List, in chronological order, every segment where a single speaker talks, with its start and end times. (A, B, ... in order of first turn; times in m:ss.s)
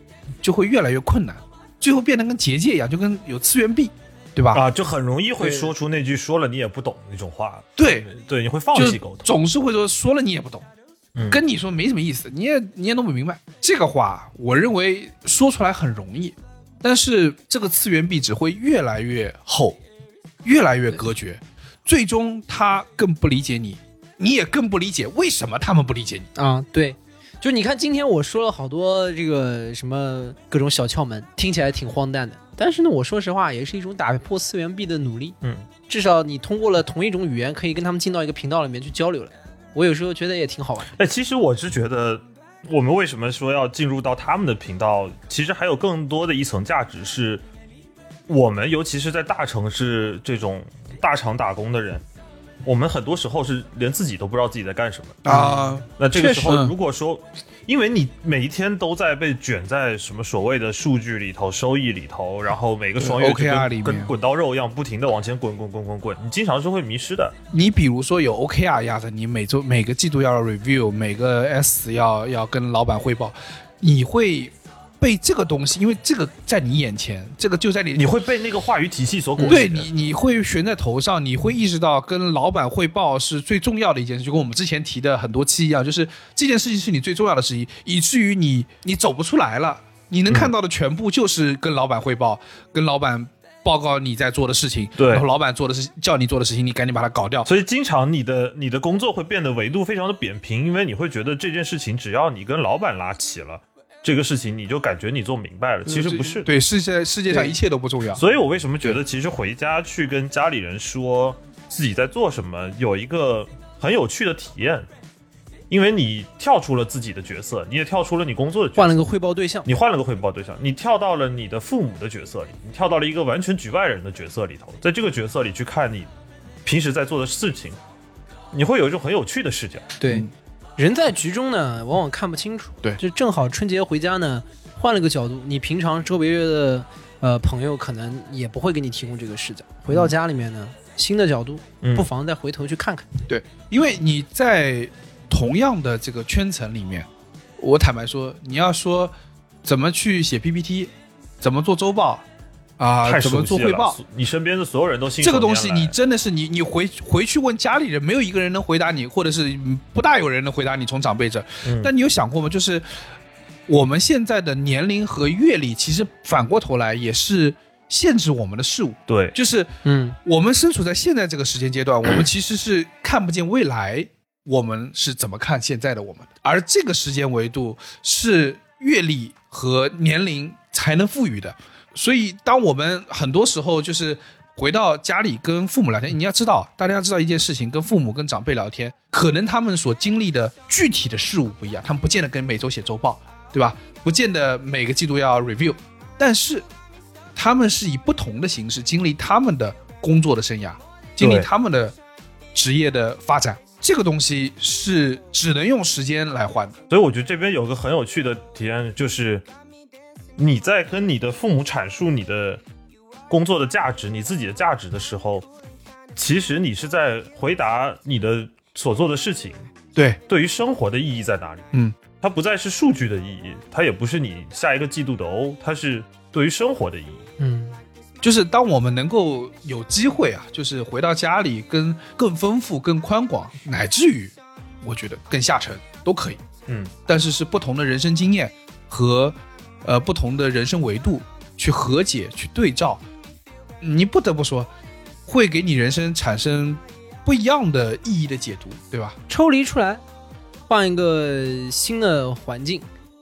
0:00.4-0:04.6 A
0:04.5-0:09.3 B
0:07.8-0:08.1 A
0:08.7-0:10.7 A
0:11.1-0:11.4 B
0:11.3-0:19.8 A
0:20.4-0:26.3 A
0:26.3-0:35.4 C
0:35.9-0:40.9 C
0:41.0-0:47.4 B
0:48.3-0:52.0 B
0:52.6-1:07.4 B
0:55.2-0:56.7 A
1:03.0-1:04.1 A
1:07.5-1:18.1 A
1:18.0-1:19.9 B
1:19.4-1:37.5 A
1:35.0-1:35.3 B
1:37.4-1:46.5 B
1:45.9-1:48.2 A
1:48.1-1:54.9 B
1:55.7-1:59.0 B
1:58.8-1:59.7 C
1:59.6-2:06.1 B
2:06.6-2:07.8 B
2:08.5-2:09.9 B
2:10.0-2:10.3 C
2:10.8-2:23.0 C
2:21.8-2:22.1 B
2:23.3-2:29.1 A
2:29.6-2:32.2 A
2:32.8-2:34.0 A
2:33.0-2:36.0 B
2:35.2-2:42.8 A
2:41.6-2:41.9 B
2:43.7-2:49.7 A
2:49.1-2:49.4 B
2:49.8-2:50.2 C
2:50.2-3:16.7 A
3:17.3-3:22.0 A
3:21.2-3:21.5 B
3:22.5-3:26.8 A
3:26.9-3:29.4 B
3:30.4-3:32.6 B
3:33.3-3:35.5 B
3:36.2-3:39.6 B
3:40.0-3:40.2 A
3:40.3-3:47.2 B
3:47.4-3:47.8 C
3:48.2-3:56.4 A
3:56.7-3:56.9 B
3:57.1-4:03.0 A
4:03.8-4:04.7 A
4:05.3-4:09.2 A
4:09.3-4:10.0 C
4:10.7-4:12.9 C